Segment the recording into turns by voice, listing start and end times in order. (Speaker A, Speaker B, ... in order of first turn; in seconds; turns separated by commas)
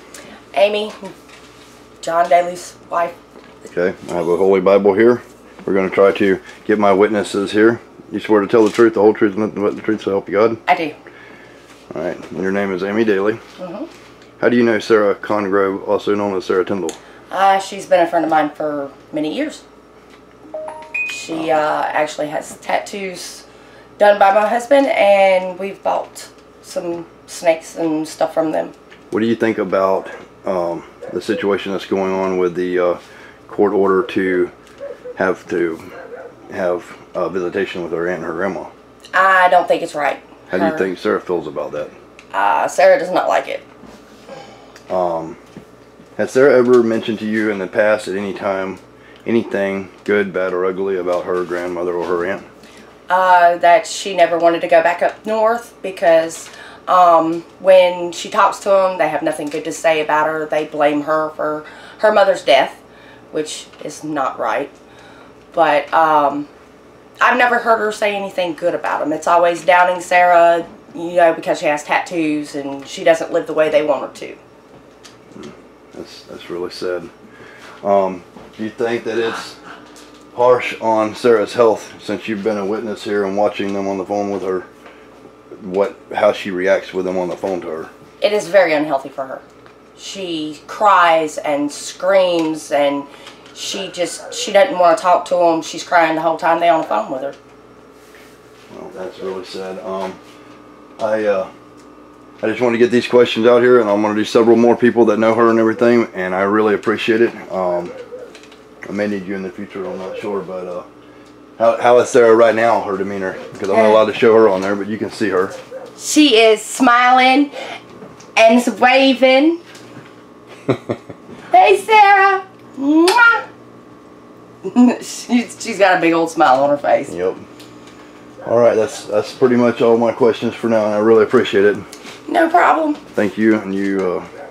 Speaker A: 0.5-1.1, Speaker A: 2.0-3.1, Speaker B: 3.7-10.6, Speaker A: 10.7-11.0, Speaker B: 11.9-13.4, Speaker A: 13.6-13.9, Speaker B: 14.4-17.0, Speaker A: 17.3-19.6, Speaker A: 21.1-23.4, Speaker B: 21.3-21.6, Speaker A: 24.0-28.7, Speaker B: 29.1-34.5, Speaker B: 35.2-35.9, Speaker B: 36.5-38.7, Speaker A: 39.1-40.9, Speaker B: 40.5-41.9, Speaker A: 42.3-43.6, Speaker B: 44.9-45.4, Speaker B: 46.2-52.5, Speaker A: 53.1-64.7, Speaker A: 65.5-66.5, Speaker A: 67.2-74.4, Speaker B: 75.3-77.1, Speaker B: 77.8-79.6, Speaker B: 80.3-84.7, Speaker B: 85.6-87.9, Speaker A: 88.2-89.4, Speaker A: 90.0-97.4, Speaker B: 98.7-100.2, Speaker B: 101.0-101.5, Speaker B: 102.4-107.9, Speaker B: 108.9-110.9, Speaker B: 111.6-115.6, Speaker A: 113.7-114.0, Speaker A: 116.0-117.5, Speaker A: 118.4-119.6, Speaker A: 121.5-123.5, Speaker A: 124.7-127.1, Speaker B: 127.1-127.4, Speaker B: 128.4-131.8, Speaker A: 132.3-133.0, Speaker B: 133.1-134.3